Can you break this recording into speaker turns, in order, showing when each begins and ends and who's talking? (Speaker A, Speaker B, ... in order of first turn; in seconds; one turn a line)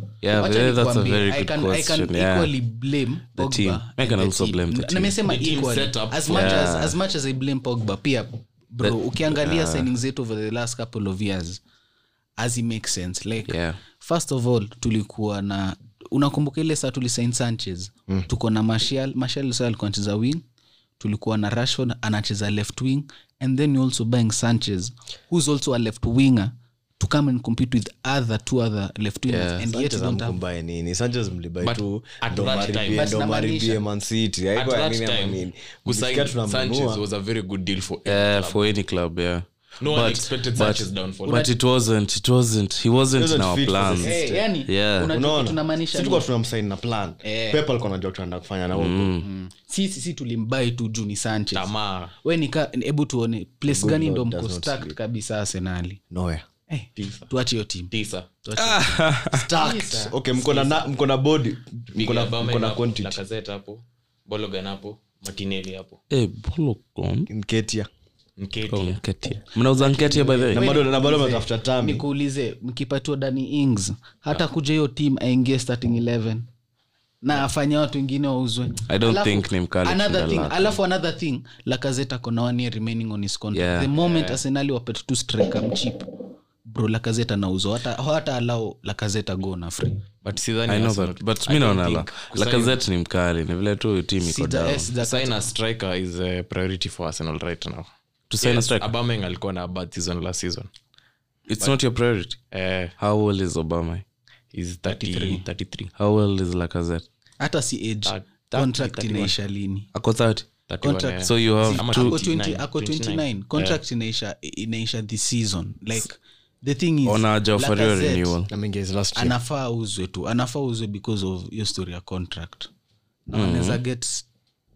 Speaker A: 0.2-2.5
Speaker B: 0.3-11.6
Speaker A: 3.3-5.2
Speaker C: 5.2-6.7
Speaker A: 6.3-7.0
Speaker A: 8.8-9.9
Speaker B: 12.4-20.4
Speaker A: 13.5-13.8
Speaker B: 21.0-30.4
Speaker A: 29.3-29.6
Speaker D: 29.6-37.0
Speaker C: 31.6-33.1
Speaker B: 32.9-33.8
Speaker C: 34.5-38.6
Speaker A: 38.0-45.1
Speaker C: 39.8-41.5
Speaker D: 43.1-44.4
Speaker B: 44.0-46.2
Speaker D: 45.0-49.2
Speaker B: 47.2-47.6
Speaker A: 48.7-49.2
Speaker B: 49.2-51.7
Speaker C: 51.5-52.1
Speaker B: 52.2-56.0
Speaker D: 53.6-55.0
Speaker D: 56.1-56.4
Speaker B: 56.7-57.9
Speaker C: 57.0-57.2
Speaker C: 57.9-58.3
Speaker B: 58.4-59.0
Speaker A: 58.5-59.5
Speaker D: 59.3-63.2
Speaker B: 59.5-60.2
Speaker C: 60.3-60.8
Speaker C: 61.9-66.0
Speaker A: 66.1-67.3
Speaker D: 67.3-67.9
Speaker C: 68.4-69.0
Speaker A: 68.7-70.7
Speaker C: 69.8-70.5
Speaker D: 70.5-72.0
Speaker B: 70.5-76.5
Speaker B: 77.2-86.1
Speaker A: 78.9-80.8
Speaker A: 83.5-83.9
Speaker C: 84.0-84.4
Speaker B: 86.6-90.0
Speaker C: 90.2-92.8
Speaker A: 90.7-94.9
Speaker B: 94.2-95.5
Speaker C: 95.0-97.9
Speaker A: 98.3-98.9
Speaker C: 98.4-100.7
Speaker A: 101.5-102.4
Speaker C: 102.5-102.9
Speaker A: 103.0-104.0
Speaker C: 104.5-105.9
Speaker B: 105.0-105.4
Speaker A: 106.0-107.0
Speaker B: 107.4-109.9
Speaker C: 108.0-109.3
Speaker A: 109.9-110.5
Speaker C: 110.7-113.8
Speaker B: 110.8-118.3
Speaker A: 111.2-112.2
Speaker A: 117.0-118.5
Speaker D: 118.5-119.3
Speaker B: 119.1-122.7
Speaker B: 123.3-124.3
Speaker A: 123.3-123.8